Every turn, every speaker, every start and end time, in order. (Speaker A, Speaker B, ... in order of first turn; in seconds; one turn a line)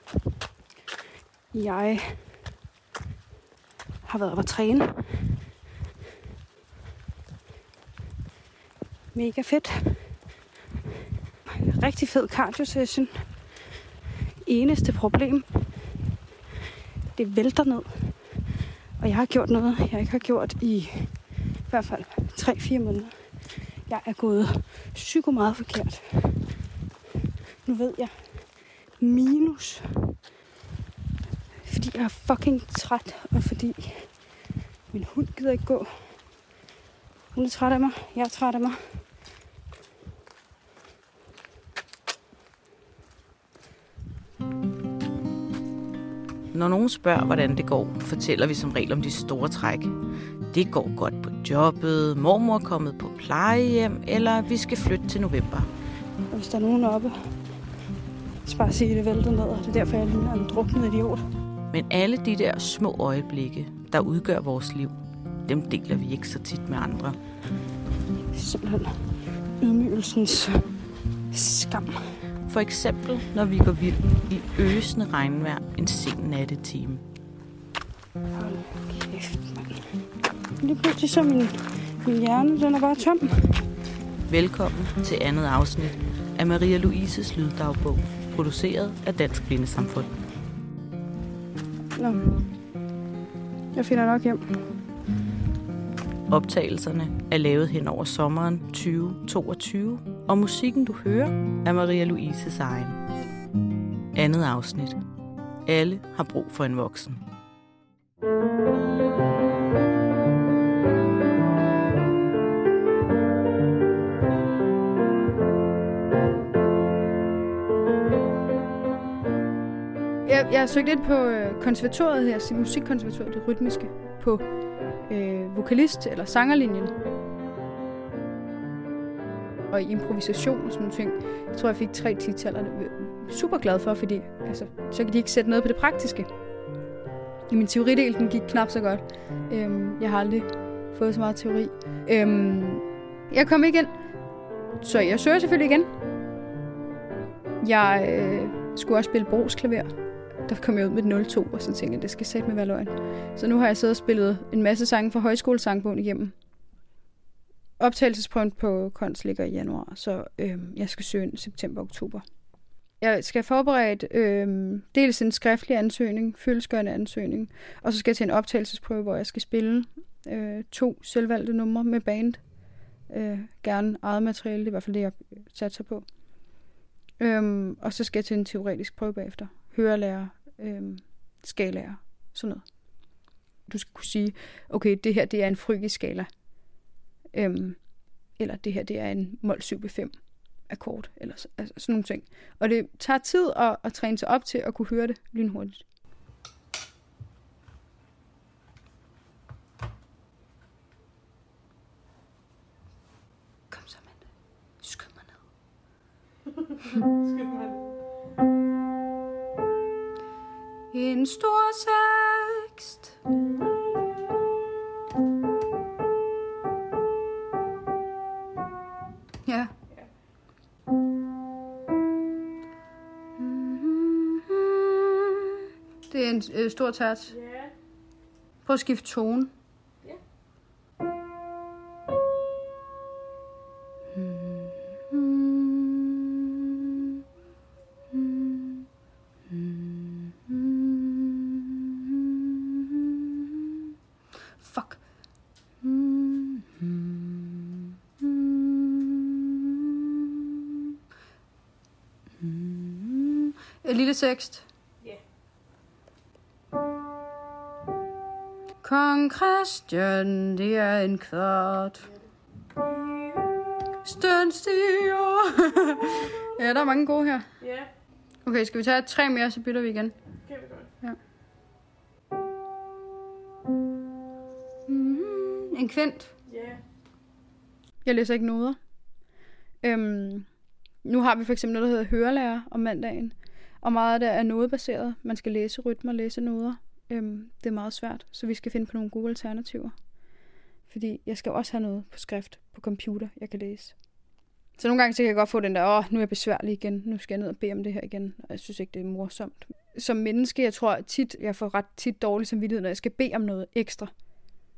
Speaker A: 1.5-2.3
Speaker A: 4.0-5.3
Speaker A: 9.1-10.1
Speaker A: 11.5-13.2
Speaker A: 14.4-15.5
Speaker A: 17.1-18.1
Speaker A: 19.0-23.1
Speaker A: 23.9-26.4
Speaker A: 27.6-28.4
Speaker A: 29.0-30.1
Speaker A: 31.6-34.3
Speaker A: 34.9-36.2
Speaker A: 37.3-38.8
Speaker B: 46.5-49.9
Speaker B: 50.5-55.7
Speaker A: 56.3-57.3
Speaker A: 58.4-61.2
Speaker B: 61.7-67.2
Speaker A: 68.3-69.0
Speaker A: 69.6-70.7
Speaker A: 71.3-72.0
Speaker B: 72.5-77.0
Speaker A: 78.3-79.8
Speaker A: 80.6-83.6
Speaker B: 84.3-90.1
Speaker A: 92.0-92.5
Speaker A: 93.7-94.6
Speaker B: 96.3-103.0
Speaker B: 104.1-105.0
Speaker B: 105.7-107.2
Speaker A: 120.2-124.4
Speaker A: 125.1-126.9
Speaker A: 129.7-136.3
Speaker A: 137.5-143.9
Speaker A: 144.8-145.9
Speaker A: 147.6-149.9
Speaker A: 150.4-156.3
Speaker A: 157.8-162.2
Speaker A: 163.0-172.4
Speaker A: 173.1-176.0
Speaker A: 177.2-182.7
Speaker A: 183.7-186.3
Speaker A: 187.3-187.8
Speaker A: 188.3-195.8
Speaker A: 203.7-204.2
Speaker A: 204.8-205.3
Speaker C: 207.0-207.8
Speaker A: 210.9-213.0
Speaker C: 213.3-214.0
Speaker A: 219.4-219.7
Speaker A: 223.4-225.4
Speaker A: 226.1-227.3
Speaker C: 227.3-227.7
Speaker A: 228.6-229.5
Speaker A: 234.1-236.0
Speaker A: 238.1-238.8
Speaker A: 239.5-241.4
Speaker A: 244.6-245.0
Speaker A: 245.8-247.6
Speaker A: 248.2-249.1
Speaker A: 252.4-254.6
Speaker A: 258.8-262.1
Speaker A: 264.0-267.5
Speaker C: 267.6-267.9
Speaker A: 268.4-270.1
Speaker C: 270.4-270.9
Speaker A: 274.9-276.3
Speaker C: 276.5-276.8
Speaker A: 278.0-278.8
Speaker A: 279.8-280.5
Speaker A: 281.0-289.9
Speaker A: 290.9-293.9
Speaker A: 294.8-304.1